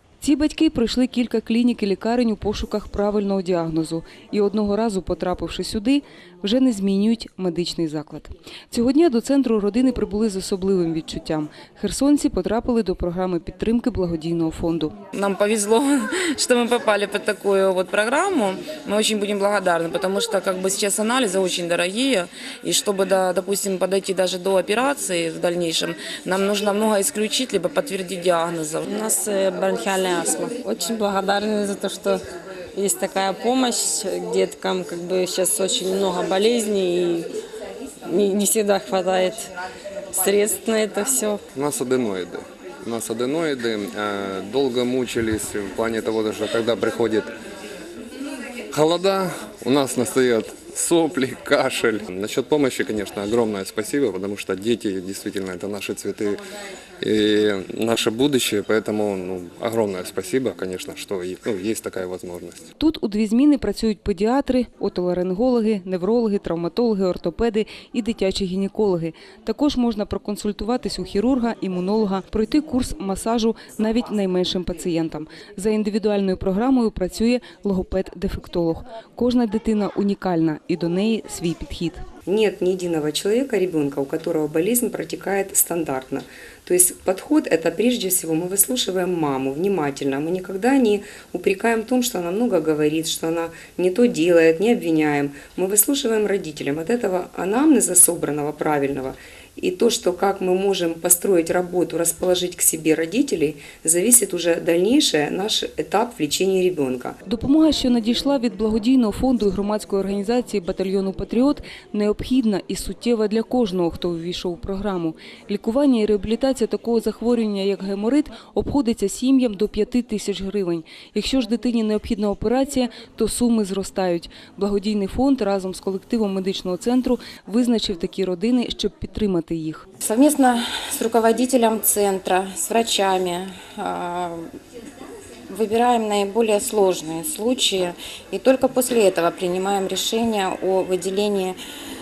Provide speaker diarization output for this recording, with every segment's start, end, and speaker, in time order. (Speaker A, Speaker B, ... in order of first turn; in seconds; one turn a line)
Speaker A: 0.2-14.9
Speaker B: 15.1-29.2
Speaker C: 28.9-37.3
Speaker C: 38.1-39.5
Speaker C: 40.1-41.4
Speaker D: 41.5-47.3
Speaker D: 48.7-56.4
Speaker D: 57.0-62.6
Speaker A: 62.8-82.0
Speaker E: 82.3-107.2
Speaker A: 107.3-129.9
Speaker F: 130.0-134.5
Speaker F: 135.5-141.6